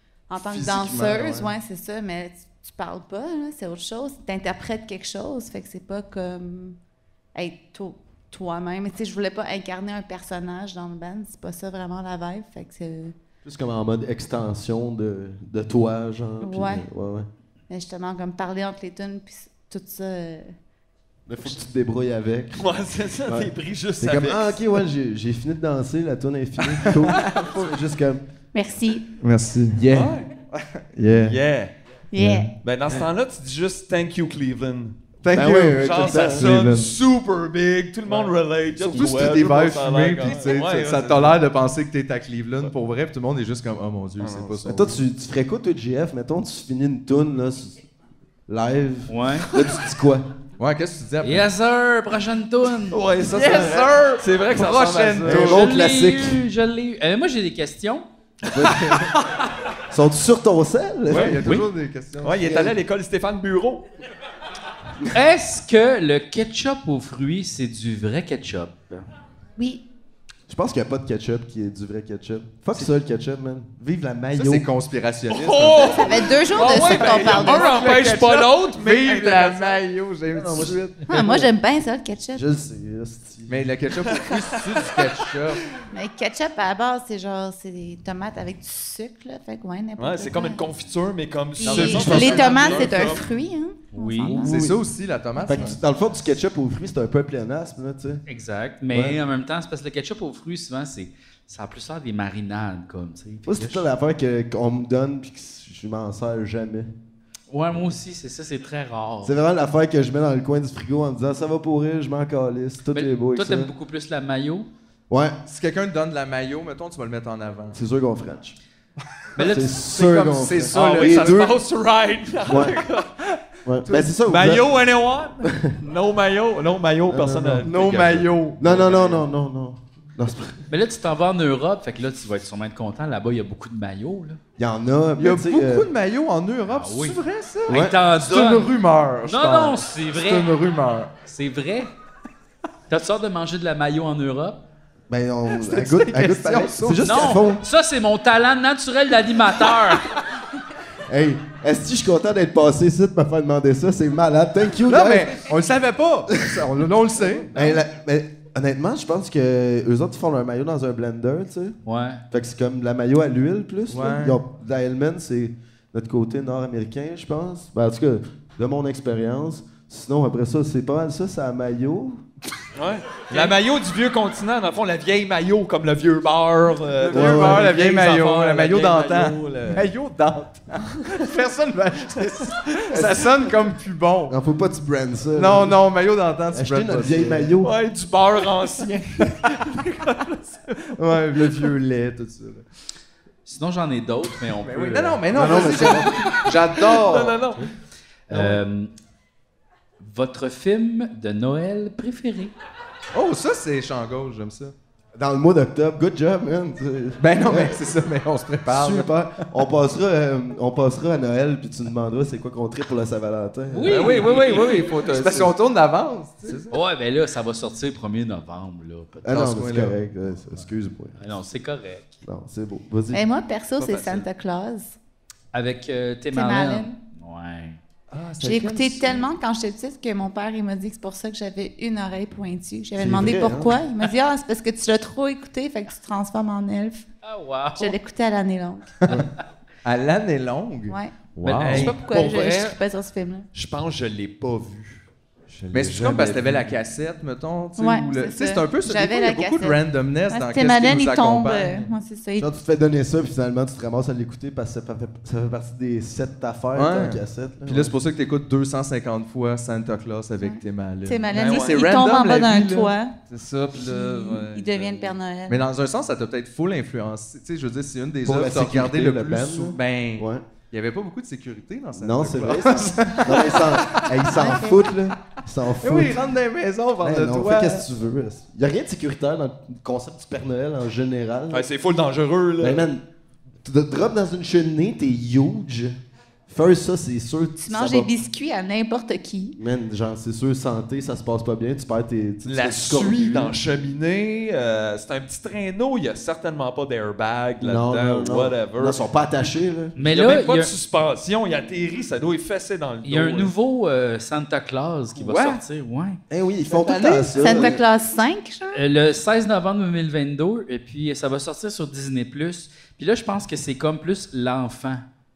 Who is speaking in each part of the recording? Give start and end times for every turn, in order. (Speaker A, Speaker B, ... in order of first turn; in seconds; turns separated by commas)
Speaker A: 0.3-6.8, Speaker B: 0.5-1.4, Speaker A: 7.3-13.2, Speaker B: 13.4-17.3, Speaker A: 16.4-16.9, Speaker A: 17.7-20.5, Speaker B: 21.2-22.7, Speaker C: 22.6-24.6, Speaker B: 23.3-28.2, Speaker C: 26.8-27.4, Speaker A: 28.5-29.0, Speaker D: 29.2-31.4, Speaker C: 29.9-30.3, Speaker C: 31.2-31.7, Speaker A: 32.1-32.5, Speaker D: 32.1-32.5, Speaker C: 32.6-41.4, Speaker D: 35.2-36.9, Speaker B: 35.3-36.5, Speaker B: 38.8-39.4, Speaker D: 38.9-45.0, Speaker C: 44.2-44.7, Speaker B: 44.6-47.9, Speaker B: 48.5-50.3, Speaker E: 49.1-49.5, Speaker D: 50.6-51.5, Speaker E: 51.2-53.0, Speaker C: 52.9-55.5, Speaker D: 53.3-55.7, Speaker B: 53.4-53.7, Speaker B: 55.2-56.4, Speaker E: 55.3-58.1, Speaker B: 58.5-59.1, Speaker C: 58.5-59.4, Speaker B: 59.9-61.4, Speaker D: 61.1-62.5, Speaker C: 61.1-61.6, Speaker C: 62.2-63.8, Speaker B: 62.4-62.7, Speaker E: 65.1-69.0, Speaker A: 69.6-69.8, Speaker B: 70.5-74.7, Speaker D: 74.3-81.2, Speaker C: 75.3-79.8, Speaker A: 75.8-77.8, Speaker B: 80.3-81.5, Speaker A: 81.0-82.4, Speaker B: 82.3-83.7, Speaker D: 83.5-85.6, Speaker C: 84.1-85.1, Speaker A: 85.9-90.7, Speaker C: 90.0-93.3, Speaker A: 91.6-94.7, Speaker D: 91.7-92.6, Speaker B: 91.8-92.7, Speaker E: 93.9-94.5, Speaker D: 94.4-95.8, Speaker B: 94.5-94.8, Speaker A: 95.4-95.8, Speaker B: 95.5-98.2, Speaker E: 98.2-103.9, Speaker B: 98.9-99.2, Speaker B: 103.5-106.9, Speaker E: 107.5-109.4, Speaker B: 109.2-113.7, Speaker E: 112.9-114.7, Speaker B: 115.1-115.3, Speaker D: 115.5-117.8, Speaker B: 117.7-118.6, Speaker C: 119.4-120.2, Speaker B: 119.4-121.6, Speaker D: 119.9-121.5, Speaker C: 120.7-123.1, Speaker B: 122.5-122.8, Speaker B: 123.6-124.7, Speaker D: 123.8-124.1, Speaker C: 124.2-128.3, Speaker B: 125.4-125.7, Speaker B: 127.1-127.7, Speaker D: 127.6-129.2, Speaker B: 128.6-130.6, Speaker E: 130.7-134.4, Speaker B: 134.6-135.9, Speaker D: 135.2-141.1, Speaker E: 136.7-138.7, Speaker E: 139.2-140.5, Speaker E: 141.2-141.9, Speaker E: 142.9-144.6, Speaker B: 145.1-147.6, Speaker D: 145.5-147.3, Speaker E: 147.0-150.1, Speaker B: 151.1-155.4, Speaker D: 154.8-157.5, Speaker B: 156.3-156.8, Speaker B: 157.5-161.8, Speaker E: 161.8-162.2, Speaker B: 162.3-172.2, Speaker D: 163.9-164.4, Speaker C: 172.7-179.9, Speaker D: 177.0-184.3, Speaker B: 177.1-177.7, Speaker B: 182.9-183.2, Speaker B: 184.3-185.8, Speaker D: 185.3-187.5, Speaker B: 186.5-187.7, Speaker C: 187.6-191.7, Speaker D: 190.9-192.6, Speaker E: 193.4-195.6, Speaker D: 194.6-197.4, Speaker B: 195.3-196.1, Speaker C: 195.8-197.6, Speaker E: 198.3-198.9, Speaker B: 198.3-198.6, Speaker E: 200.0-202.5, Speaker D: 203.1-204.7, Speaker B: 205.1-207.8, Speaker D: 207.2-209.1, Speaker B: 208.7-214.1, Speaker E: 213.7-214.8, Speaker C: 213.9-215.5, Speaker D: 214.1-216.7, Speaker E: 216.7-219.3, Speaker B: 219.2-221.3, Speaker D: 219.3-220.0, Speaker E: 221.2-222.2, Speaker B: 222.2-223.2, Speaker A: 223.1-225.0, Speaker C: 223.8-224.3, Speaker E: 225.5-227.8, Speaker A: 226.3-226.9, Speaker D: 228.1-229.2, Speaker A: 228.4-237.1, Speaker B: 232.9-233.8, Speaker E: 237.2-238.0, Speaker A: 237.8-239.1, Speaker D: 239.8-241.9, Speaker E: 241.4-242.6, Speaker C: 241.6-242.7, Speaker A: 241.8-243.5, Speaker C: 243.5-246.6, Speaker D: 245.7-251.8, Speaker B: 245.7-246.3, Speaker A: 247.8-252.5, Speaker B: 252.4-257.9, Speaker D: 256.7-262.9, Speaker A: 260.4-263.1, Speaker C: 261.3-261.9, Speaker C: 263.3-265.2, Speaker A: 263.7-265.6, Speaker D: 265.5-274.5, Speaker B: 268.2-270.4, Speaker B: 271.9-276.2, Speaker A: 274.3-274.9, Speaker D: 275.8-277.9, Speaker B: 277.0-281.6, Speaker C: 281.5-282.9, Speaker B: 282.6-283.0, Speaker B: 283.6-288.1, Speaker A: 287.6-289.6, Speaker B: 289.6-293.6, Speaker C: 292.4-299.0, Speaker B: 297.6-299.9, Speaker E: 299.9-300.7, Speaker C: 300.1-303.5, Speaker E: 303.0-306.2, Speaker D: 305.2-305.6, Speaker B: 306.3-307.8, Speaker D: 306.7-307.7, Speaker A: 307.3-308.8, Speaker E: 308.7-315.0